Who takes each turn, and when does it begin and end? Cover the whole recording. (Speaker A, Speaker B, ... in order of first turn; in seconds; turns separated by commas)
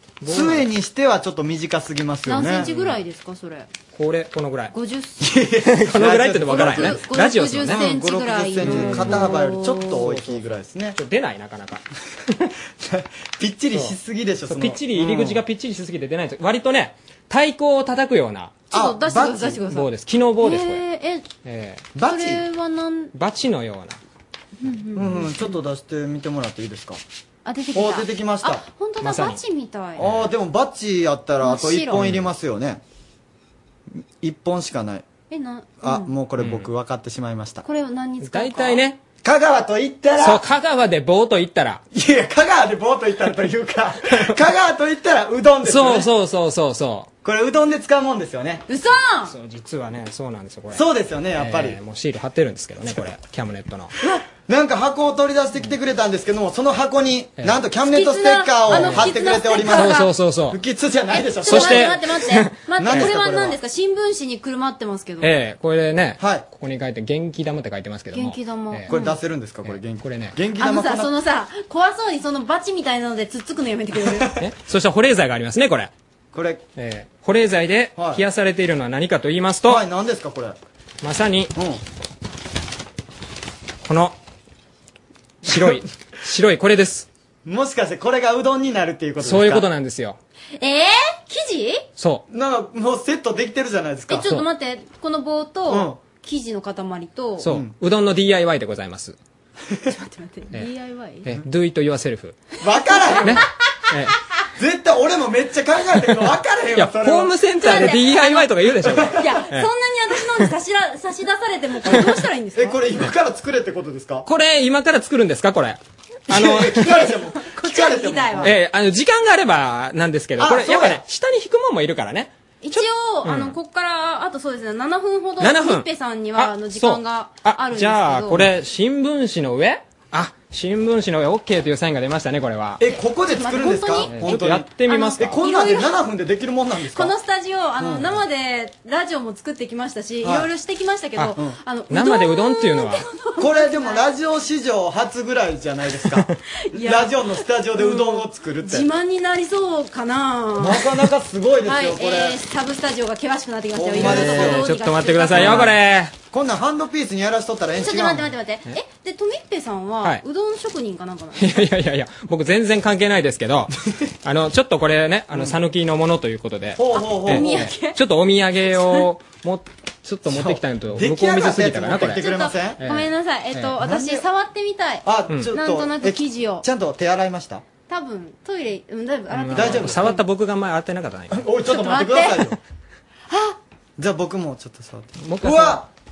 Speaker A: 0.2-0.7, Speaker B: 0.2-2.7, Speaker C: 2.2-3.7, Speaker A: 2.5-2.9, Speaker A: 3.9-4.7, Speaker C: 4.7-5.2, Speaker B: 5.2-7.0, Speaker A: 5.6-7.8, Speaker C: 6.5-10.1, Speaker B: 7.6-11.0, Speaker A: 8.6-11.8, Speaker B: 12.8-15.4, Speaker A: 13.7-18.7, Speaker C: 18.7-19.9, Speaker B: 18.7-19.6, Speaker A: 19.6-20.8, Speaker C: 20.4-21.3, Speaker A: 21.4-21.9, Speaker B: 21.9-22.4, Speaker C: 22.0-23.1, Speaker A: 23.1-24.0, Speaker C: 24.6-25.5, Speaker B: 24.9-27.0, Speaker C: 27.4-30.1, Speaker B: 27.7-28.6, Speaker A: 29.0-29.4, Speaker B: 29.9-32.8, Speaker C: 31.4-32.1, Speaker A: 32.0-32.2, Speaker B: 34.2-35.0, Speaker C: 35.3-36.1, Speaker B: 35.8-37.6, Speaker A: 36.4-36.7, Speaker C: 37.6-38.8, Speaker A: 38.2-39.0, Speaker B: 39.2-40.4, Speaker A: 40.2-41.8, Speaker B: 41.9-46.1, Speaker A: 45.6-47.1, Speaker B: 47.2-48.6, Speaker C: 48.7-49.3, Speaker A: 49.2-53.9, Speaker B: 50.7-51.8, Speaker B: 54.4-62.0, Speaker A: 57.4-57.6, Speaker C: 57.8-60.1, Speaker A: 58.7-60.6, Speaker C: 61.1-65.3, Speaker A: 61.4-63.1, Speaker B: 62.8-63.6, Speaker A: 65.2-68.9, Speaker B: 66.2-66.5, Speaker C: 68.1-69.2, Speaker B: 68.9-71.1, Speaker A: 69.6-70.4, Speaker C: 70.6-74.3, Speaker A: 74.4-75.9, Speaker B: 76.3-76.6, Speaker A: 76.8-79.8, Speaker B: 78.0-78.2, Speaker B: 79.6-80.6, Speaker A: 81.0-81.5, Speaker B: 81.5-81.8, Speaker A: 83.8-84.2, Speaker A: 85.4-87.1, Speaker B: 87.4-89.7, Speaker A: 89.2-90.2, Speaker C: 90.6-91.8, Speaker A: 92.0-92.2, Speaker B: 92.3-94.4, Speaker C: 94.1-97.5, Speaker B: 95.7-96.0, Speaker A: 97.4-99.2, Speaker B: 97.4-97.7, Speaker C: 99.9-101.3, Speaker A: 101.2-102.4, Speaker B: 102.6-103.4, Speaker C: 102.8-103.4, Speaker A: 103.2-104.1, Speaker B: 104.6-107.9, Speaker A: 106.7-109.7, Speaker C: 107.6-112.8, Speaker B: 108.8-109.2, Speaker B: 111.8-114.3, Speaker A: 114.2-117.1, Speaker B: 116.3-118.5, Speaker C: 117.4-118.5, Speaker A: 118.4-123.5, Speaker B: 120.4-121.0, Speaker C: 122.6-128.5, Speaker A: 125.4-132.8, Speaker B: 132.8-137.1, Speaker C: 133.3-135.9, Speaker A: 134.1-135.4, Speaker C: 136.9-144.0, Speaker B: 137.8-138.2, Speaker B: 140.2-140.5, Speaker A: 141.9-143.0, Speaker B: 143.4-148.9, Speaker C: 146.7-150.9, Speaker B: 150.6-152.4, Speaker C: 151.7-155.7, Speaker B: 153.7-154.7, Speaker A: 153.9-156.2, Speaker B: 155.3-158.3, Speaker C: 157.8-161.6, Speaker A: 161.3-163.7, Speaker A: 164.2-173.8, Speaker B: 165.3-165.6, Speaker B: 166.7-167.7, Speaker C: 166.9-168.0, Speaker C: 168.6-169.1, Speaker B: 170.2-172.8, Speaker C: 172.0-176.6, Speaker B: 173.8-174.2, Speaker B: 175.0-177.6, Speaker C: 177.9-180.2, Speaker A: 179.3-181.5, Speaker B: 179.5-180.2, Speaker B: 181.3-182.6, Speaker C: 181.7-182.4, Speaker C: 183.3-183.6, Speaker B: 184.0-185.9, Speaker A: 185.2-185.8